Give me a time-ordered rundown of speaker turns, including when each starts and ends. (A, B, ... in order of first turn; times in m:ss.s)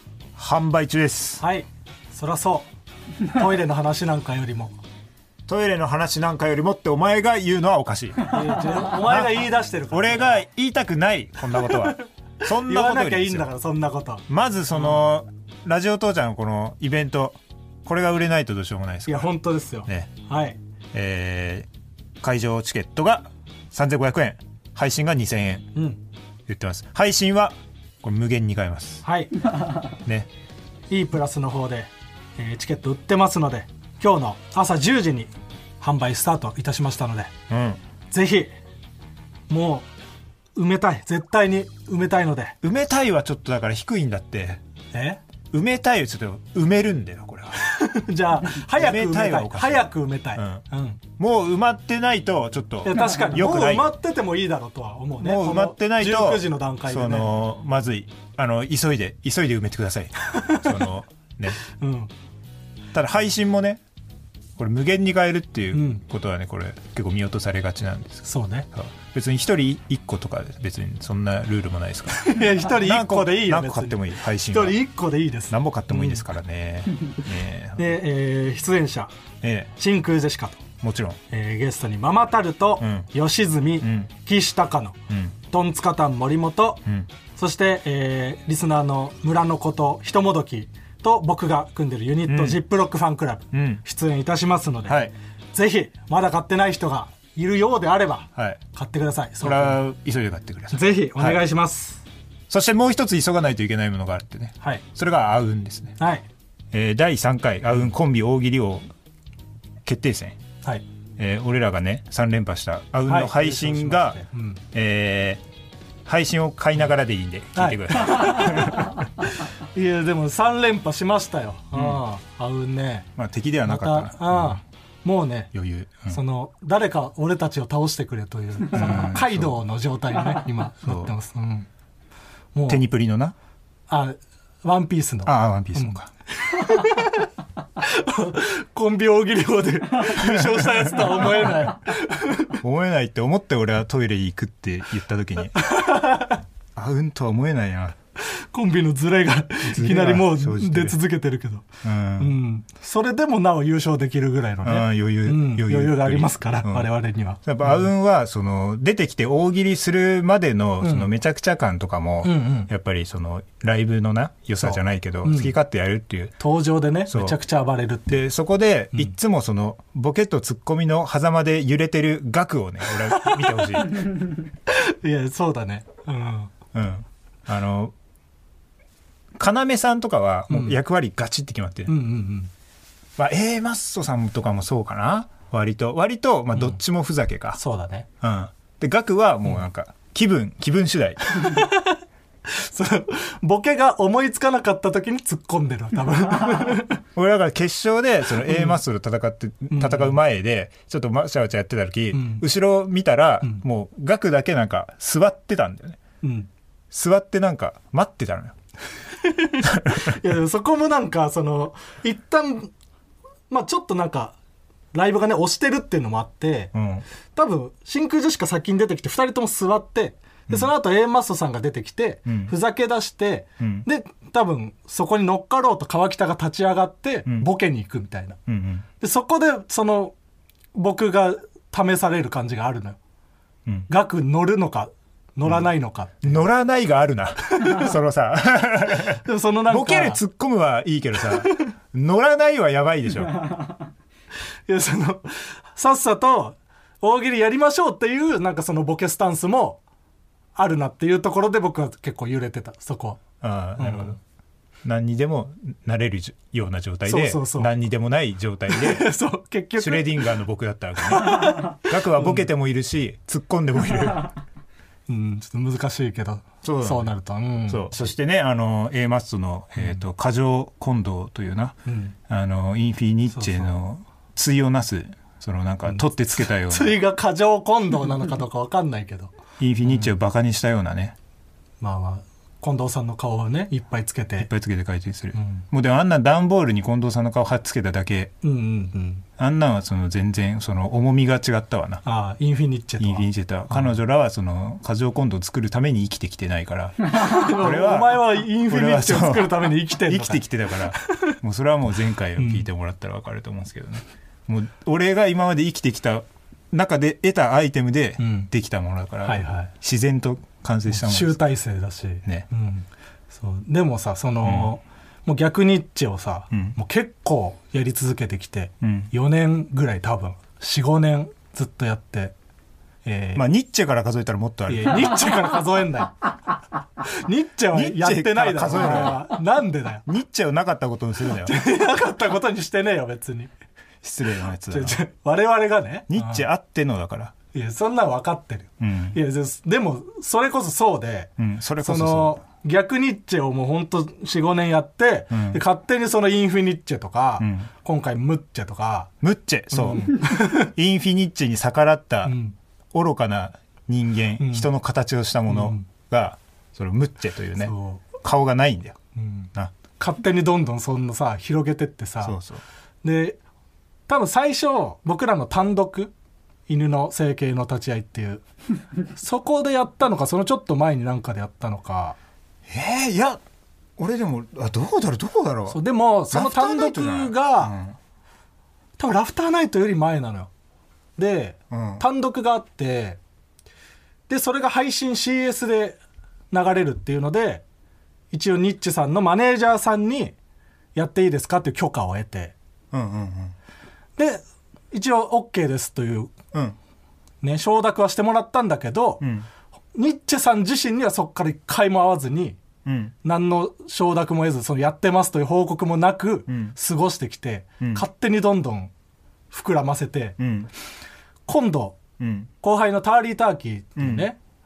0:00.4-0:01.4 A
0:01.4-0:02.7 B
0:03.2-0:04.8 B
0:05.5-0:08.4 A
0:08.3-0:10.4 B
0:09.0-0:09.4 A
0:09.9-0:13.5 A
0:11.6-0:14.2 B
0:14.3-0:19.3 A
0:19.1-0:20.6 B
0:19.9-0:20.1 A
0:20.9-0:21.7 A
0:22.2-0:25.7 A
0:25.8-0:26.0 B
0:26.5-0:29.0 A
0:29.0-0:29.3 B
0:30.0-0:30.3 A
0:30.9-0:37.3 B
0:37.5-0:37.8 A
0:38.1-0:38.5 B
0:39.5-0:39.9 B
0:40.6-0:42.6 B
0:42.6-0:44.6 A
0:44.9-0:45.2 B
0:45.5-0:47.6 A
0:47.6-0:51.0 B
0:48.6-0:50.6 A
0:51.2-0:53.9 A
0:52.8-0:57.3 B
0:55.2-1:01.6 A
1:01.7-1:02.1 B
1:02.9-1:03.8 A
1:04.6-1:14.8 A
1:05.7-1:06.0 B
1:08.2-1:08.7 B
1:12.1-1:16.2 B
1:15.5-1:17.9 A
1:17.8-1:19.1 B
1:19.4-1:19.7 A
1:19.8-1:20.6 B
1:20.8-1:21.2 A
1:21.3-1:26.8 B
1:22.8-1:23.1 A
1:23.8-1:24.1 A
1:27.4-1:39.8 B
1:32.3-1:32.6 A
1:33.5-1:33.8 A
1:34.9-1:35.1 A
1:38.4-1:38.6 A
1:39.4-1:41.4 A
1:40.7-1:42.0 B
1:42.5-1:46.0 A
1:46.0-1:46.2 B
1:46.7-1:48.9 A
1:49.8-1:50.4 A
1:51.2-1:54.2 A
1:53.1-1:54.6 B
1:54.7-1:55.4 A
1:56.0-1:59.0 A
1:57.6-1:58.9 B
1:59.7-2:03.1 B
2:01.7-2:02.0 A
2:03.2-2:04.6 A
2:03.6-2:05.5 B
2:05.5-2:06.2 A
2:06.1-2:11.7 B
2:08.7-2:09.6 A
2:10.8-2:11.1 A
2:12.6-2:12.8 B
2:12.7-2:13.4 A
2:13.9-2:17.3 B
2:15.2-2:16.1 A
2:17.8-2:22.6 B
2:20.0-2:21.3 A
2:22.6-2:25.6 A
2:25.6-2:26.4 B
2:26.8-2:28.0 A
2:28.2-2:31.7 B
2:29.6-2:31.0 A
2:31.8-2:32.3 A
2:32.2-2:37.9 B
2:34.6-2:36.9 A
2:37.4-2:46.4 A
2:40.8-2:41.1 B
2:42.2-2:42.7 B
2:44.6-2:45.5 B
2:46.4-2:48.1 B
2:47.1-2:47.4 A
2:48.1-2:54.1 A
2:53.2-2:54.1 B
2:54.7-2:56.5 B
2:56.7-2:57.9 A
2:59.4-3:01.9 A
3:00.5-3:00.8 B
3:01.9-3:02.5 B
3:03.2-3:07.6 A
3:07.6-3:08.1 B
3:08.2-3:11.6 A
3:11.3-3:17.0 B
3:17.2-3:26.0 A
3:18.4-3:18.8 B
3:19.7-3:20.2 B
3:22.1-3:22.4 B
3:26.2-3:26.5 B
3:26.9-3:28.6 A
3:29.2-3:32.7 B
3:29.6-3:30.2 A
3:33.5-3:34.4 B
3:34.9-3:36.7 B
3:36.7-3:37.0 A
3:37.4-3:48.4 B
3:42.3-3:42.5 A
3:43.6-3:43.9 A
3:48.5-3:48.8 A
3:49.0-3:50.2 B
3:50.7-3:53.0 B
3:53.9-3:56.5 B
3:56.2-4:03.5 A
3:57.6-3:57.9 B
3:59.2-4:00.2 B
4:04.7-4:09.8 B
4:10.6-4:13.2 B
4:13.4-4:14.2 A
4:13.8-4:14.2 B
4:14.8-4:19.1 A
4:17.1-4:17.7 B
4:18.7-4:20.3 B
4:19.8-4:24.3 A
4:21.0-4:22.4 B
4:25.1-4:27.9 B
4:26.6-4:27.1 A
4:27.7-4:31.8 A
4:31.8-4:32.2 B
4:32.3-4:37.0 A
4:33.3-4:33.7 B
4:36.6-4:39.3 B
4:39.6-4:41.2 A
4:41.8-4:44.5 B
4:44.4-4:48.3 A
4:45.3-4:45.6 B
4:48.4-4:49.2 B
4:49.4-4:52.0 A
4:52.0-4:53.9 B
4:53.0-5:11.4 A
4:57.1-5:01.4 B
5:02.4-5:02.7 B
5:08.2-5:08.5 B
5:09.2-5:09.7 B
5:10.9-5:22.3 B
5:14.4-5:14.7 A
5:18.8-5:19.1 A
5:23.0-5:23.4 B
5:23.4-5:25.2 A
5:24.7-5:26.2 B
5:27.0-5:30.0 B
5:27.7-5:29.4 A
5:30.1-5:31.6 A
5:31.4-5:33.5 B
5:34.0-5:35.0 A
5:34.7-5:36.4 B
5:36.1-5:37.3 A
5:37.5-5:49.1 B
5:38.8-5:39.2 A
5:41.4-5:42.4 A
5:45.3-5:45.6 A
5:47.4-5:47.7 A
5:49.2-5:52.4 A
5:49.7-5:50.7 B
5:52.2-5:52.6 B
5:52.9-5:59.0 A
5:54.4-5:54.7 B
5:55.5-5:55.9 B
5:57.6-5:58.0 B
5:59.2-6:02.4 B
6:02.2-6:02.6 A
6:03.0-6:03.4 B
6:04.1-6:06.1 B
6:06.7-6:08.4 B
6:09.1-6:12.2 B
6:12.7-6:13.4 A
6:14.0-6:15.8 A
6:15.7-6:17.8 B
6:16.3-6:18.0 A
6:19.0-6:20.5 B
6:21.2-6:23.2 B
6:21.7-6:22.0 A
6:24.3-6:26.0 B
6:26.5-6:27.6 B
6:28.3-6:30.3 B
6:30.9-6:32.5 B
6:32.9-6:33.6 A
6:34.2-6:36.3 B
6:37.4-6:39.2 B
6:39.2-6:39.5 A
6:39.9-6:42.6 B
6:42.8-6:43.1 A
6:43.2-6:48.9 B
6:46.5-6:46.7 A
6:49.5-6:50.4 B
6:50.4-6:50.7 A
6:51.5-6:52.0 B
6:52.2-6:52.5 A
6:52.6-6:54.4 B
6:54.0-6:54.3 A